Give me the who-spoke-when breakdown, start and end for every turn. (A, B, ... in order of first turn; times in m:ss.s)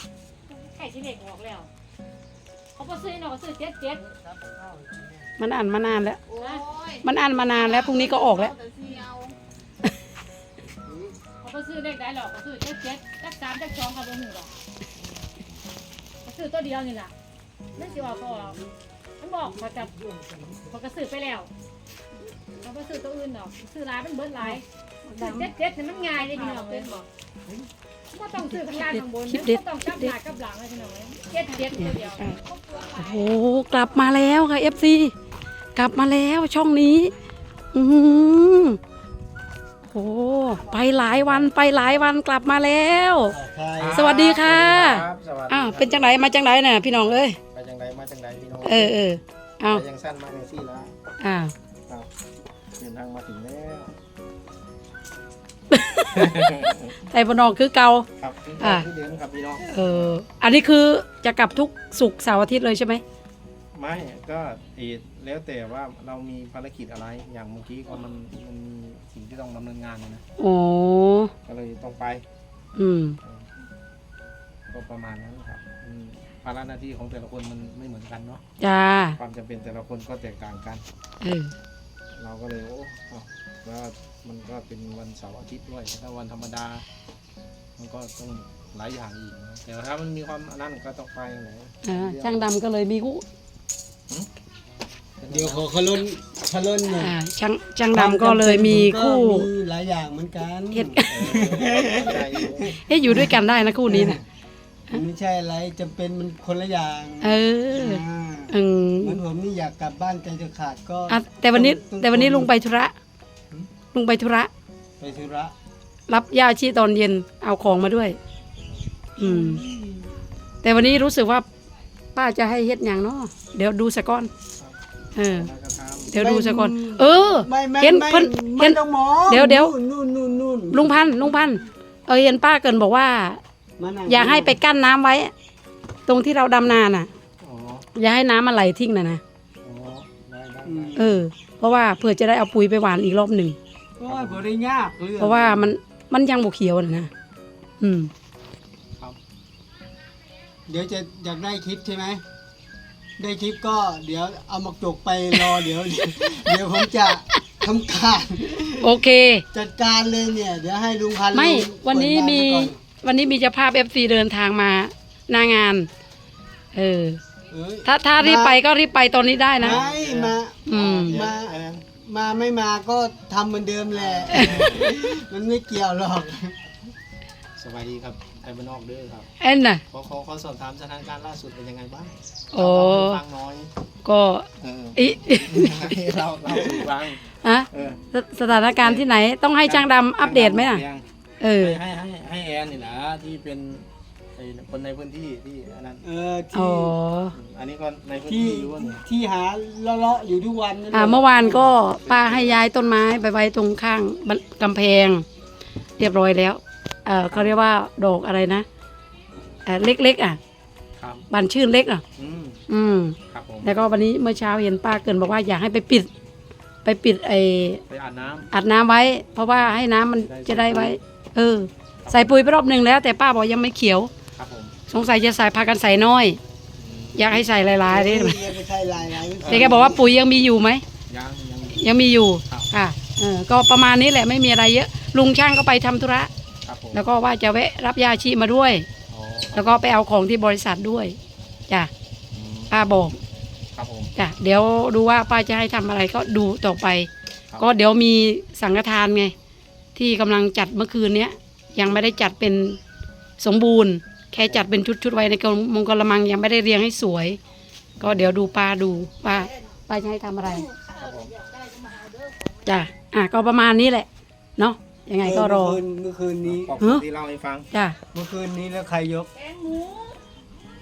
0:00.4-0:01.7 A
0:02.8-0:04.2 A
0:04.4-0:05.2 B
0:05.4-0:06.2 C
0:06.4-0:06.7 A
0:06.4-0:07.0 D
0:07.0-0:08.6 C
0:07.6-0:09.4 D
0:11.4-0:14.6 A
0:16.2-0:17.1 A
0:17.7-0:18.6 A
0:19.2-0:19.9 A
0:20.6-0:21.5 A
0:22.6-0:24.6 A
0:25.2-0:27.0 A
0:26.4-0:27.0 D
0:28.1-0:33.3 A
0:28.5-0:30.1 C
0:31.7-0:32.4 C
0:33.0-0:35.1 C
0:35.8-0:37.1 C
0:37.7-0:38.8 C
0:39.8-0:43.4 C
0:40.6-0:40.9 B
0:43.3-0:44.1 B
0:43.8-0:46.3 E
0:43.9-0:47.4 C
0:46.8-0:49.0 E
0:48.6-0:49.8 C
0:49.7-0:51.0 E
0:51.2-0:51.5 C
0:52.8-0:54.0 E
0:55.7-0:56.5 C
0:56.1-0:56.9 E
0:57.0-0:58.1 C
0:58.2-1:00.2 E
0:58.6-0:58.9 C
0:59.6-1:03.0 C
1:03.7-1:10.2 E
1:10.4-1:11.3 C
1:11.4-1:12.2 E
1:12.8-1:13.2 C
1:13.2-1:13.5 E
1:14.7-1:18.4 E
1:18.6-1:19.2 C
1:19.2-1:20.8 E
1:21.2-1:21.5 C
1:22.1-1:26.8 E
1:27.8-1:32.5 E
1:31.8-1:33.2 C
1:35.2-1:35.7 E
1:35.3-1:37.1 B
1:36.9-1:39.5 C
1:37.9-1:44.2 B
1:40.7-1:41.2 C
1:41.1-1:42.8 E
1:42.9-1:44.2 C
1:44.9-1:52.5 B
1:47.2-1:49.2 C
1:51.1-1:52.9 C
1:53.9-1:54.5 C
1:55.0-1:55.5 B
1:56.1-1:58.2 C
1:59.2-2:00.1 B
1:59.2-1:59.6 C
2:00.6-2:01.4 C
2:02.1-2:04.3 C
2:04.6-2:06.2 E
2:05.1-2:05.5 C
2:06.1-2:09.7 C
2:06.2-2:11.0 B
2:10.7-2:13.4 C
2:13.8-2:14.6 B
2:14.0-2:15.3 C
2:16.0-2:17.1 C
2:17.4-2:17.8 E
2:17.9-2:19.2 C
2:19.6-2:21.1 E
2:20.6-2:21.2 B
2:21.0-2:23.6 C
2:24.0-2:25.5 B
2:24.1-2:24.5 E
2:25.2-2:27.1 C
2:25.4-2:25.7 E
2:27.8-2:28.1 C
2:30.7-2:32.2 B
2:33.2-2:38.9 B
2:38.8-2:39.4 C
2:39.5-2:42.8 B
2:41.3-2:45.9 C
2:46.7-2:47.2 C
2:47.5-2:48.6 B
2:47.8-2:49.8 C
2:49.6-2:56.6 B
2:49.6-2:51.8 E
2:50.6-2:51.2 C
2:53.9-2:54.9 E
2:57.6-2:59.3 E
2:59.4-2:59.8 C
2:59.9-3:03.7 E
3:02.5-3:03.2 C
3:04.0-3:06.0 C
3:04.6-3:08.0 E
3:07.4-3:10.8 C
3:08.8-3:09.1 E
3:09.6-3:11.0 E
3:11.4-3:11.8 C
3:11.6-3:16.0 E
3:16.0-3:17.0 B
3:16.5-3:17.3 C
3:17.3-3:19.0 E
3:18.2-3:21.7 B
3:20.9-3:25.2 C
3:21.6-3:22.6 E
3:26.0-3:28.6 C
3:27.3-3:27.5 E
3:29.6-3:30.4 C
3:31.0-3:31.3 E
3:31.3-3:32.0 C
3:32.2-3:32.6 E
3:32.7-3:36.1 C
3:33.3-3:33.8 E
3:36.8-3:37.8 C
3:37.8-3:38.5 E
3:38.5-3:44.1 C
3:39.5-3:41.0 E
3:42.0-3:42.4 E
3:44.3-3:44.7 E
3:44.9-3:46.4 C
3:46.8-3:47.4 E
3:47.1-3:48.5 C
3:47.7-3:50.0 B
3:49.4-3:49.8 E
3:49.4-3:50.8 C
3:51.1-3:51.9 E
3:51.7-3:56.3 C
3:52.4-3:52.7 E
3:56.6-3:57.0 E
3:56.9-3:58.9 C
3:59.1-3:59.9 E
3:59.5-4:01.2 C
4:02.3-4:02.8 E
4:02.7-4:03.2 C
4:03.7-4:04.1 E
4:04.2-4:09.3 C
4:10.0-4:12.8 C
4:13.4-4:17.4 C
4:14.4-4:14.7 E
4:18.0-4:20.6 C
4:18.0-4:18.5 E
4:20.8-4:22.6 D
4:20.9-4:21.3 E
4:22.6-4:25.8 C
4:25.2-4:26.7 B
4:26.4-4:27.7 E
4:28.1-4:29.3 B
4:29.4-4:29.9 D
4:29.5-4:30.2 A